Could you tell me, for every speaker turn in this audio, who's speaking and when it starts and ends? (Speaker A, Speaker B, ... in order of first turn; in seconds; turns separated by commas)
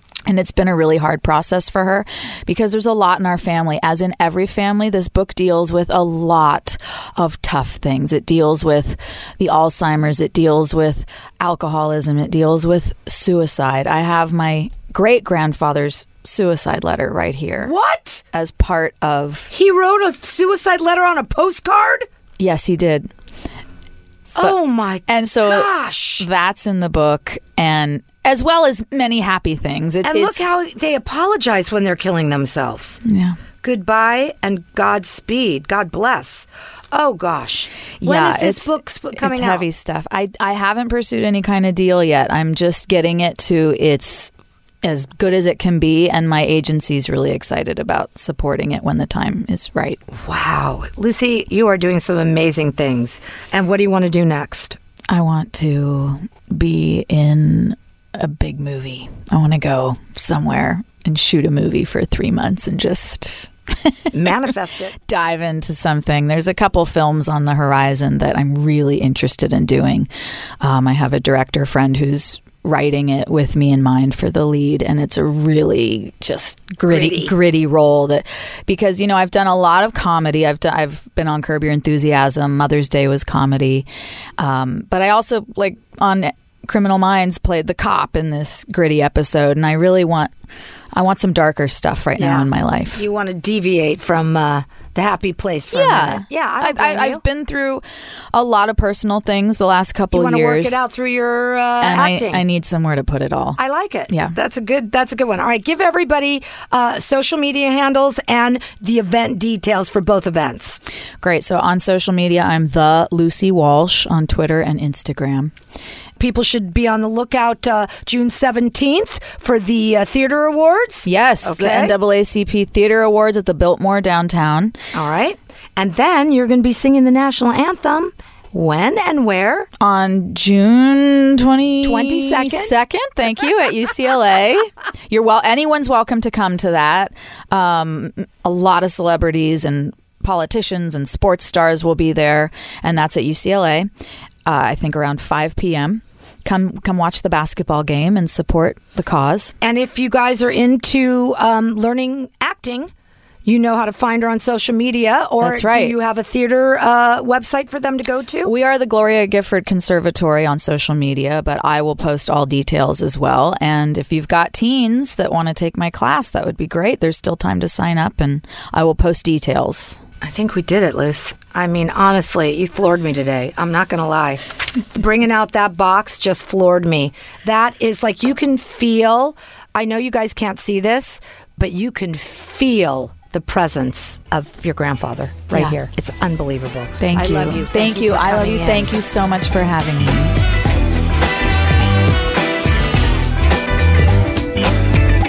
Speaker A: 0.3-17.7, Speaker B: 17.6-18.2, Speaker A: 18.3-19.5, Speaker B: 19.5-22.1, Speaker A: 22.4-23.1, Speaker B: 24.3-26.2, Speaker A: 25.1-30.5, Speaker B: 30.0-33.0, Speaker A: 33.0-33.4, Speaker B: 33.6-39.6, Speaker A: 38.0-44.3, Speaker A: 44.8-50.0, Speaker B: 50.1-54.8, Speaker A: 55.1-64.3, Speaker B: 64.1-65.0, Speaker A: 65.0-70.1, Speaker A: 70.6-83.8, Speaker B: 76.9-77.3, Speaker A: 84.4-90.3, Speaker A: 90.9-93.0, Speaker B: 92.2-97.2, Speaker A: 95.7-100.8, Speaker B: 100.1-102.4, Speaker A: 101.8-103.6, Speaker B: 103.6-110.8, Speaker A: 104.1-104.3, Speaker A: 111.2-115.5, Speaker B: 116.2-121.9, Speaker A: 121.0-124.8, Speaker B: 124.9-129.7, Speaker A: 129.8-143.9, Speaker B: 131.8-132.8, Speaker A: 144.4-149.5, Speaker B: 149.6-152.9, Speaker B: 153.4-158.5, Speaker A: 155.4-155.9, Speaker A: 158.4-170.0, Speaker B: 170.2-188.9, Speaker A: 187.0-190.3